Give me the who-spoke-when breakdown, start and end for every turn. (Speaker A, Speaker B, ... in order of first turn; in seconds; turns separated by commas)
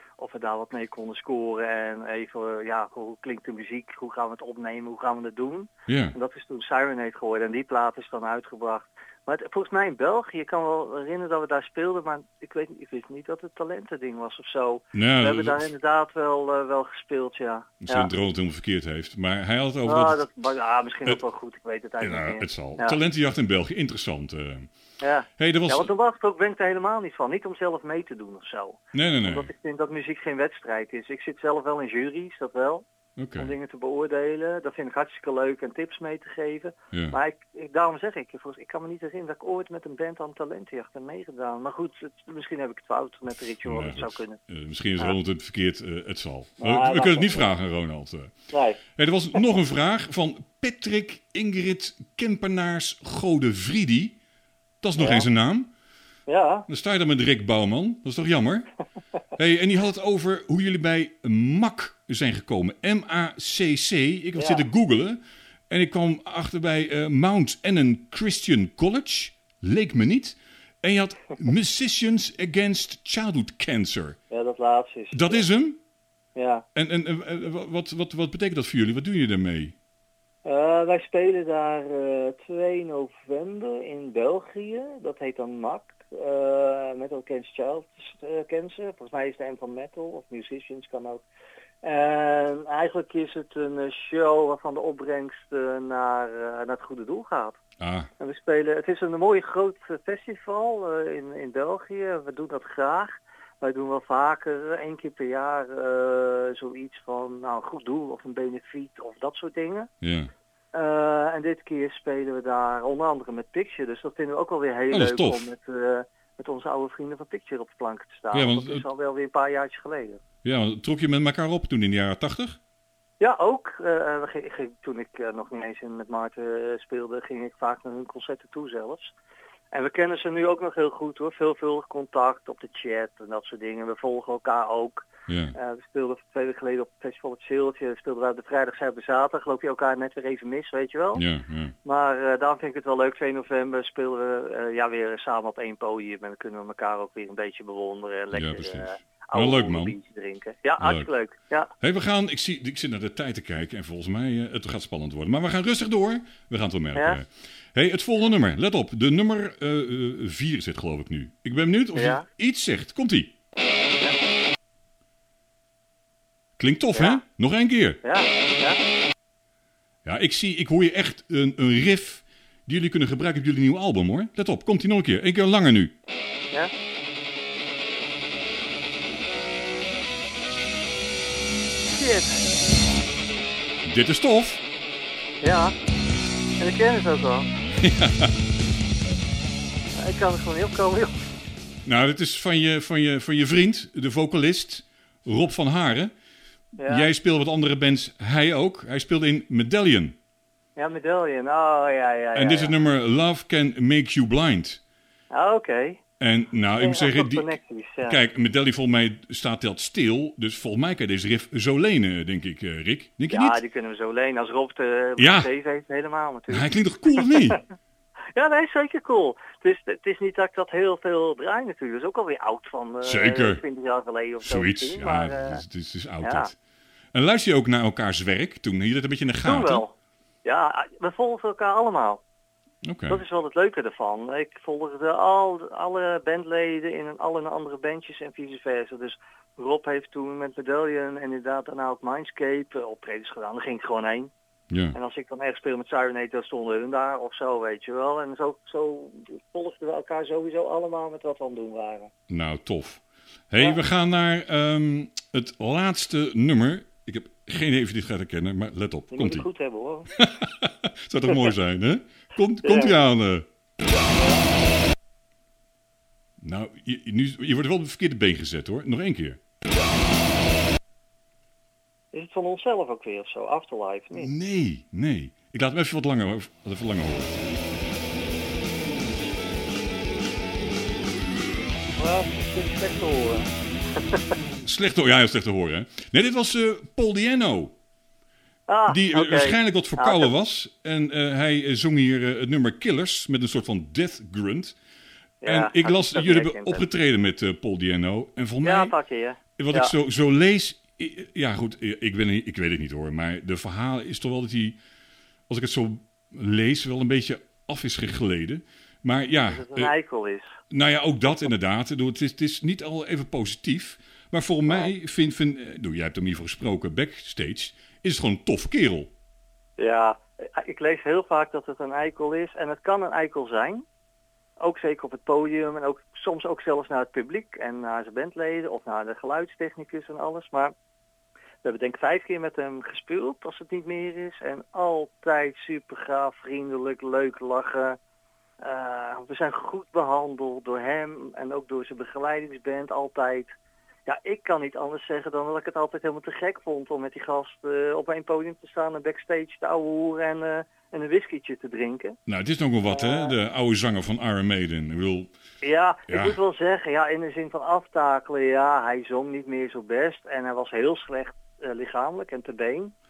Speaker A: 0.2-18.1, Speaker B: 5.9-6.2, Speaker B: 14.9-15.7, Speaker B: 17.8-20.2, Speaker A: 19.9-23.0, Speaker B: 22.0-24.7, Speaker A: 25.0-32.9, Speaker B: 25.4-25.9, Speaker B: 28.9-29.5, Speaker B: 33.2-33.5, Speaker A: 33.4-44.4, Speaker B: 43.6-48.4, Speaker A: 46.6-47.5, Speaker A: 48.5-48.8, Speaker B: 49.0-54.2, Speaker B: 54.8-55.7, Speaker A: 55.0-55.3, Speaker A: 56.3-56.7, Speaker B: 56.7-58.7, Speaker B: 59.4-74.2, Speaker A: 64.4-64.6, Speaker A: 74.3-75.5, Speaker B: 75.1-75.8, Speaker A: 76.3-76.7, Speaker B: 76.8-79.8, Speaker A: 80.4-91.2, Speaker A: 91.8-97.6, Speaker B: 97.8-98.1, Speaker A: 98.2-109.9, Speaker B: 110.0-110.3, Speaker A: 110.7-120.2, Speaker B: 114.9-115.5, Speaker B: 118.3-118.8, Speaker B: 120.4-122.6, Speaker A: 123.2-129.1, Speaker A: 129.7-141.2, Speaker B: 135.3-135.6, Speaker B: 141.2-141.8, Speaker A: 141.8-151.7, Speaker B: 148.3-150.0, Speaker B: 150.8-151.1, Speaker B: 151.8-163.3, Speaker A: 162.0-162.3, Speaker B: 166.6-168.0, Speaker A: 166.9-167.2, Speaker A: 168.0-168.8, Speaker B: 170.1-175.9, Speaker A: 181.9-182.9, Speaker B: 183.9-184.6, Speaker A: 185.4-185.8, Speaker A: 186.6-187.5, Speaker B: 187.8-188.3, Speaker A: 189.9-191.2, Speaker B: 191.9-196.1, Speaker A: 196.8-197.1, Speaker B: 196.8-200.2, Speaker A: 200.8-202.7, Speaker B: 202.3-204.8, Speaker A: 205.3-206.0, Speaker B: 206.2-207.5, Speaker A: 206.8-208.2, Speaker B: 208.1-213.6, Speaker A: 213.3-217.6, Speaker B: 215.2-215.5, Speaker B: 216.5-217.6, Speaker A: 218.3-225.6, Speaker B: 223.0-223.6, Speaker B: 224.4-226.6, Speaker A: 226.2-226.5, Speaker B: 227.1-229.8, Speaker A: 229.4-229.9, Speaker A: 230.4-232.2, Speaker B: 232.8-233.2, Speaker A: 233.1-244.3, Speaker B: 244.7-245.0, Speaker A: 244.9-252.1, Speaker B: 252.3-259.5, Speaker A: 259.1-260.1, Speaker B: 260.1-263.5, Speaker A: 261.3-261.5, Speaker A: 262.6-263.0, Speaker A: 264.0-264.4, Speaker B: 266.4-269.4, Speaker A: 272.1-274.3, Speaker B: 274.1-277.6, Speaker A: 282.0-284.4, Speaker B: 284.6-287.7, Speaker A: 288.7-290.3, Speaker B: 288.9-294.8, Speaker A: 295.4-296.8, Speaker B: 295.5-298.9, Speaker A: 298.6-299.9, Speaker B: 299.6-304.8, Speaker B: 305.5-309.9, Speaker A: 309.5-310.6, Speaker B: 310.7-319.1, Speaker A: 319.8-323.8, Speaker A: 324.6-330.7, Speaker A: 331.6-338.0, Speaker A: 338.6-343.5, Speaker A: 344.1-352.2, Speaker B: 352.3-355.3, Speaker A: 352.9-353.3, Speaker A: 355.6-362.9, Speaker B: 356.1-356.4